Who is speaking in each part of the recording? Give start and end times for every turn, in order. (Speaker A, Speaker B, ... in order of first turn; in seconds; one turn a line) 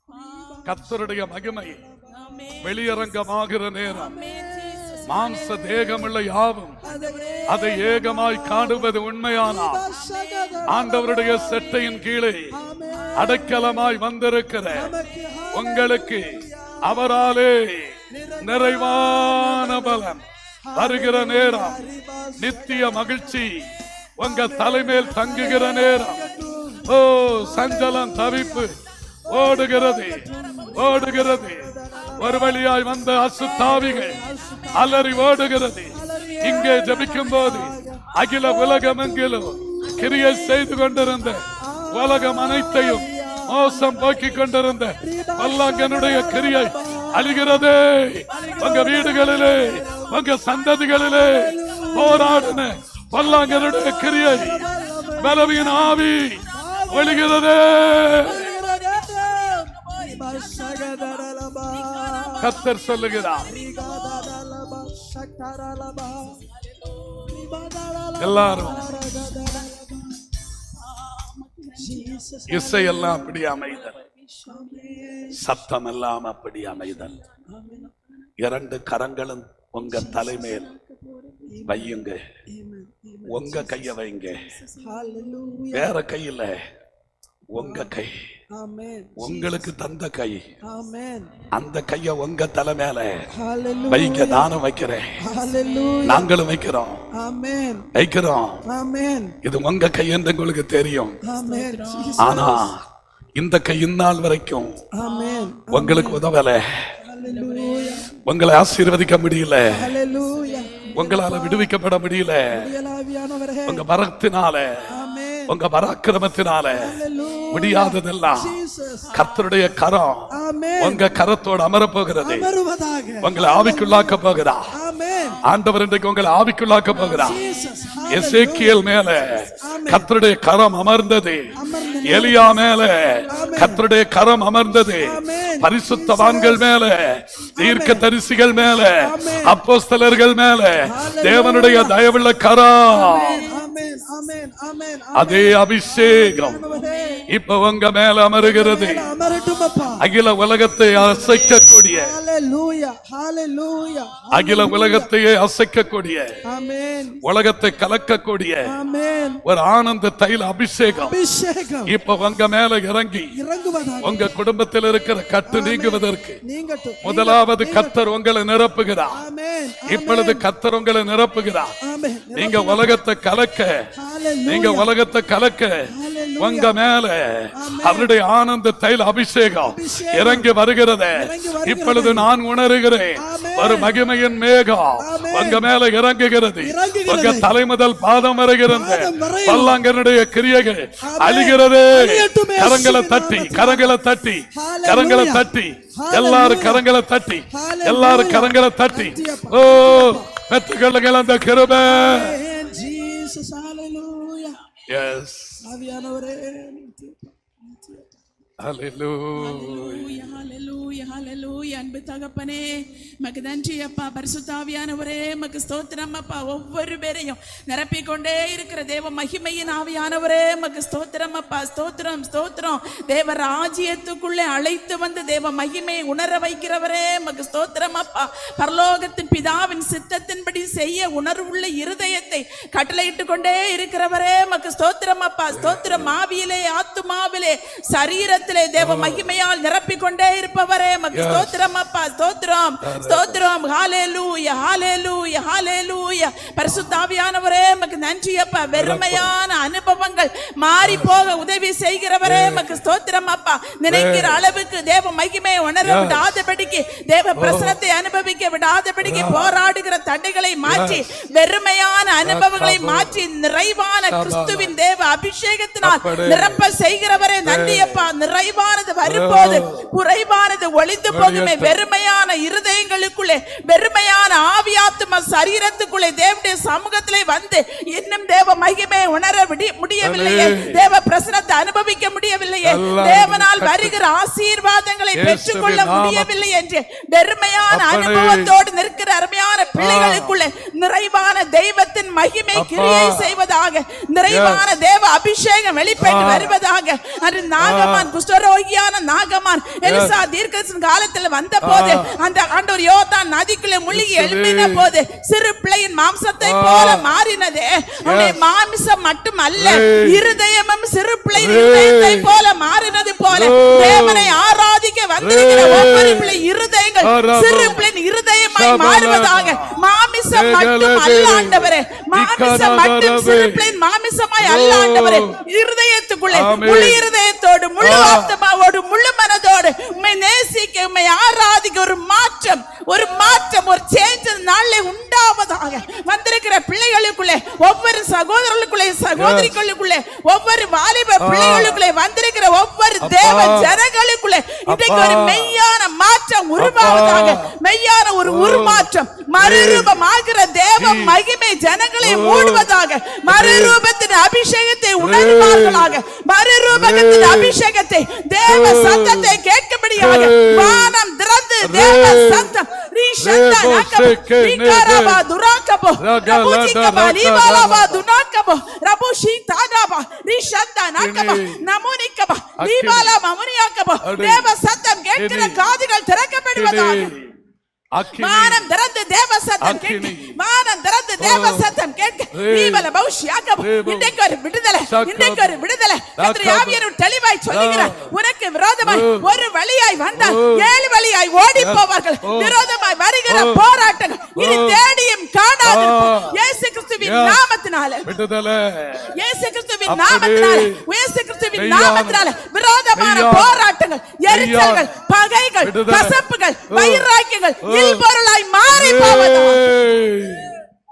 Speaker A: 0.1-0.9
Speaker B: 0.1-2.5
Speaker C: 0.7-1.8
Speaker A: 2.1-3.3
Speaker C: 2.6-4.2
Speaker A: 3.9-6.1
Speaker B: 4.0-5.1
Speaker C: 5.1-6.8
Speaker A: 6.8-8.5
Speaker B: 6.8-11.6
Speaker C: 7.5-9.8
Speaker A: 9.3-11.7
Speaker C: 10.7-12.5
Speaker B: 12.5-13.7
Speaker A: 12.9-13.6
Speaker C: 13.2-14.9
Speaker B: 14.7-17.0
Speaker C: 15.5-20.2
Speaker B: 18.1-20.1
Speaker B: 20.6-28.7
Speaker C: 20.8-21.8
Speaker C: 22.4-23.6
Speaker C: 24.2-26.2
Speaker C: 26.9-28.7
Speaker B: 29.2-32.8
Speaker C: 29.3-34.2
Speaker A: 30.5-31.0
Speaker B: 33.3-35.2
Speaker C: 34.7-54.6
Speaker B: 35.9-38.1
Speaker B: 38.8-40.5
Speaker B: 41.6-44.4
Speaker B: 45.0-47.5
Speaker A: 48.3-49.2
Speaker B: 48.3-50.4
Speaker B: 50.9-52.7
Speaker A: 51.0-64.5
Speaker B: 53.5-55.5
Speaker C: 55.2-58.5
Speaker B: 56.5-57.3
Speaker B: 58.2-62.6
Speaker C: 62.4-63.5
Speaker B: 63.4-66.4
Speaker A: 66.3-67.6
Speaker B: 67.3-70.2
Speaker C: 68.2-68.8
Speaker A: 68.4-69.8
Speaker A: 70.7-72.3
Speaker B: 71.8-73.2
Speaker C: 72.5-73.9
Speaker A: 73.3-75.3
Speaker B: 74.5-75.4
Speaker C: 75.3-77.2
Speaker A: 76.9-77.4
Speaker B: 77.5-77.9
Speaker C: 78.4-80.7
Speaker B: 79.9-80.4
Speaker A: 79.9-81.6
Speaker B: 81.5-82.0
Speaker C: 81.7-82.2
Speaker B: 82.5-83.9
Speaker C: 83.3-84.5
Speaker A: 84.3-85.4
Speaker B: 84.8-85.9
Speaker C: 85.7-86.6
Speaker C: 87.5-88.1
Speaker B: 87.6-87.9
Speaker B: 88.5-89.5
Speaker C: 89.2-90.4
Speaker B: 90.7-91.3
Speaker C: 91.5-93.3
Speaker B: 93.3-94.5
Speaker C: 93.9-95.2
Speaker B: 95.2-96.3
Speaker A: 95.3-96.2
Speaker C: 96.0-97.0
Speaker B: 97.2-97.8
Speaker C: 97.9-98.6
Speaker B: 98.7-99.3
Speaker C: 99.4-101.2
Speaker B: 101.2-102.7
Speaker A: 101.4-102.6
Speaker C: 102.2-102.8
Speaker C: 103.4-104.8
Speaker B: 104.9-106.2
Speaker A: 105.0-105.6
Speaker C: 105.7-106.9
Speaker B: 107.0-108.1
Speaker A: 107.2-108.1
Speaker C: 108.2-109.9
Speaker B: 109.7-111.7
Speaker A: 110.1-110.9
Speaker C: 110.9-112.7
Speaker B: 112.5-113.8
Speaker C: 113.7-114.9
Speaker B: 114.9-115.6
Speaker C: 115.5-117.0
Speaker B: 116.7-119.1
Speaker C: 117.5-118.5
Speaker A: 119.0-119.5
Speaker C: 119.1-122.5
Speaker B: 120.3-121.1
Speaker B: 122.2-124.1
Speaker C: 123.2-124.7
Speaker B: 124.7-125.4
Speaker A: 125.1-125.4
Speaker C: 125.4-127.4
Speaker A: 126.9-127.4
Speaker B: 127.0-128.8
Speaker C: 128.1-131.5
Speaker A: 129.1-129.7
Speaker B: 129.6-130.1
Speaker B: 131.6-132.6
Speaker A: 131.9-132.4
Speaker C: 132.0-143.4
Speaker B: 133.3-133.8
Speaker A: 133.3-133.5
Speaker B: 135.0-136.7
Speaker B: 137.6-138.1
Speaker B: 138.9-139.6
Speaker B: 140.8-141.9
Speaker B: 143.0-147.2
Speaker A: 143.1-143.6
Speaker C: 145.1-146.6
Speaker A: 146.7-147.2
Speaker C: 147.3-149.1
Speaker B: 148.4-150.0
Speaker A: 149.2-149.7
Speaker C: 150.0-152.1
Speaker B: 151.8-155.1
Speaker C: 154.3-156.4
Speaker B: 156.5-157.2
Speaker C: 157.2-158.7
Speaker B: 158.7-159.4
Speaker C: 159.4-161.2
Speaker B: 161.0-161.9
Speaker C: 161.9-163.3
Speaker B: 163.3-164.3
Speaker C: 164.0-166.4
Speaker B: 165.4-167.9
Speaker C: 167.0-169.2
Speaker B: 169.1-170.4
Speaker C: 169.8-171.7
Speaker B: 171.8-173.0
Speaker C: 172.3-173.8
Speaker B: 174.0-174.9
Speaker C: 174.5-175.9
Speaker B: 175.9-176.7
Speaker C: 176.4-202.4
Speaker B: 177.6-178.1
Speaker B: 179.6-180.5
Speaker B: 181.1-182.3
Speaker B: 183.2-184.0
Speaker B: 185.0-185.7
Speaker B: 186.6-187.5
Speaker B: 188.7-189.8
Speaker B: 191.0-193.9
Speaker B: 194.5-196.8
Speaker B: 197.5-200.3
Speaker B: 201.8-204.6
Speaker C: 204.9-205.6
Speaker B: 205.6-208.1
Speaker C: 208.6-210.2
Speaker A: 209.3-377.1
Speaker C: 235.5-236.1
Speaker C: 238.8-239.2
Speaker C: 241.1-241.6
Speaker C: 242.8-243.4
Speaker C: 248.7-249.3
Speaker C: 250.8-251.1
Speaker C: 252.2-252.8
Speaker C: 253.9-254.4
Speaker C: 255.8-256.2
Speaker C: 257.4-257.8
Speaker C: 259.0-259.5
Speaker C: 260.7-261.0
Speaker C: 262.2-263.2
Speaker C: 264.1-264.7
Speaker C: 265.8-266.6
Speaker C: 267.4-268.0
Speaker C: 269.0-269.9
Speaker C: 271.1-271.8
Speaker C: 280.0-280.8
Speaker C: 282.6-283.9
Speaker C: 285.1-286.3
Speaker C: 287.7-288.5
Speaker C: 289.8-290.3
Speaker C: 292.5-293.3
Speaker C: 294.3-294.7
Speaker C: 296.0-296.5
Speaker C: 297.6-298.1
Speaker C: 299.8-300.2
Speaker C: 301.6-302.2
Speaker C: 303.9-304.9
Speaker C: 306.4-307.1
Speaker C: 308.0-308.4
Speaker C: 309.6-310.4
Speaker C: 311.3-312.4
Speaker C: 313.3-314.3
Speaker C: 315.2-316.4
Speaker C: 317.0-317.8
Speaker C: 318.6-319.8
Speaker C: 320.3-323.8
Speaker C: 324.4-325.4
Speaker C: 326.3-327.0
Speaker C: 327.8-328.3
Speaker C: 339.1-339.6
Speaker C: 341.2-341.8
Speaker C: 343.0-343.8
Speaker C: 344.7-345.5
Speaker C: 346.6-347.5
Speaker C: 348.2-348.9
Speaker C: 349.4-349.9
Speaker C: 350.8-351.2
Speaker C: 352.0-352.7
Speaker C: 353.3-353.8
Speaker C: 355.0-355.9
Speaker C: 356.7-357.6
Speaker C: 358.4-359.4
Speaker C: 360.0-360.9
Speaker C: 361.6-362.5
Speaker C: 363.2-365.2
Speaker C: 366.0-368.0
Speaker C: 371.0-371.6
Speaker C: 372.6-373.2
Speaker C: 374.0-374.5
Speaker C: 375.1-375.6
Speaker C: 376.5-377.3
Speaker C: 377.9-378.6
Speaker A: 378.2-398.1
Speaker C: 379.6-380.4
Speaker C: 381.2-381.7
Speaker C: 382.3-382.9
Speaker C: 383.6-384.2
Speaker C: 384.8-385.6
Speaker C: 386.2-386.8
Speaker C: 387.5-388.1
Speaker C: 388.8-389.3
Speaker C: 390.2-390.7
Speaker C: 391.6-392.6
Speaker C: 393.3-393.7
Speaker C: 394.3-394.8
Speaker C: 395.6-396.4
Speaker C: 397.0-397.4
Speaker C: 398.0-399.1
Speaker A: 399.1-409.7
Speaker C: 399.9-400.8
Speaker C: 401.5-402.3
Speaker C: 402.9-403.6
Speaker C: 404.3-404.9
Speaker C: 405.6-407.1
Speaker C: 407.6-408.0
Speaker C: 408.7-410.6